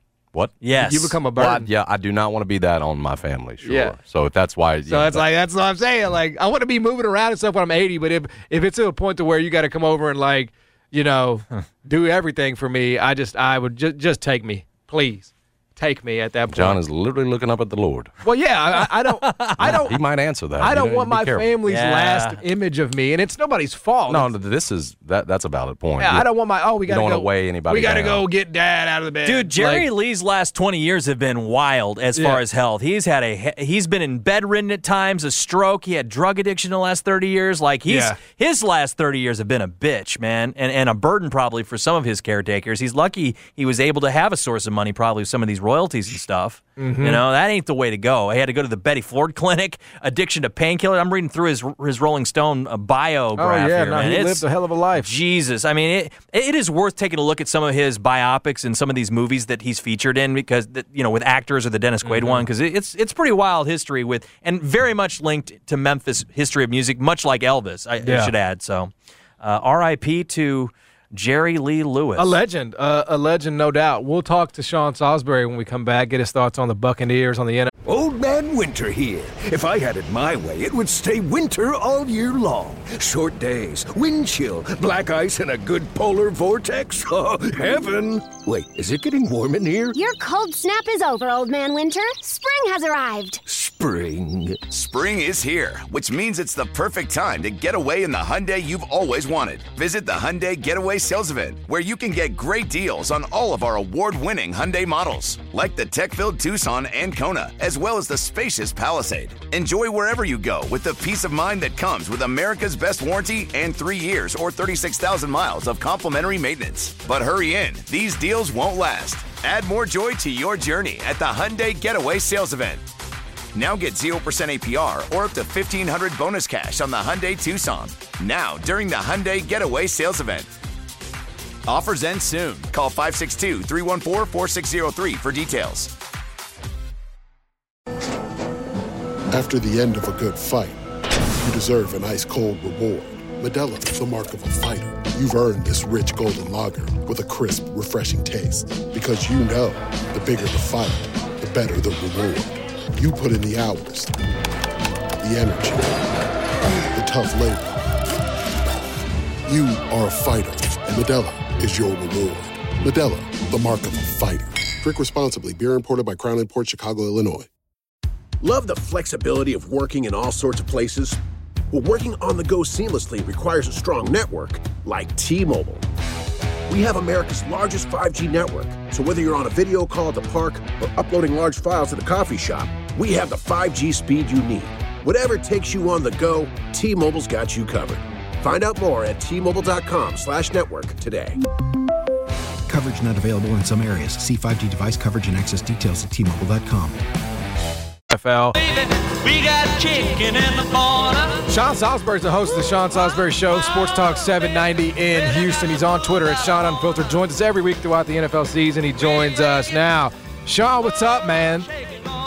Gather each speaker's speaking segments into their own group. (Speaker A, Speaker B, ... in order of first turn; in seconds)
Speaker A: 0.6-1.2, 19.2-19.6, 21.7-22.4, 29.2-72.3
Speaker B: 0.8-1.7, 3.6-4.0, 4.9-16.8, 18.2-20.0, 20.6-24.3, 26.0-29.9, 32.1-32.4, 37.9-38.2, 46.8-47.2, 53.4-55.1, 62.0-62.4, 68.0-68.3, 72.2-77.7, 198.1-198.6, 201.5-211.7
Speaker C: 1.4-5.3, 16.5-18.1, 19.6-21.5, 24.1-26.3, 26.9-28.2
Speaker D: 77.9-90.0, 93.5-94.7
Speaker E: 89.9-93.4
Speaker F: 94.7-122.8, 123.5-130.5, 131.7-135.9
Speaker G: 139.3-140.8, 141.4-154.1, 155.2-156.0, 156.9-157.8, 159.5-167.5
Speaker H: 168.4-171.2, 171.7-175.8, 176.7-184.3, 185.0-187.8, 188.8-191.3
Speaker I: 192.7-197.0
Speaker J: 198.7-201.4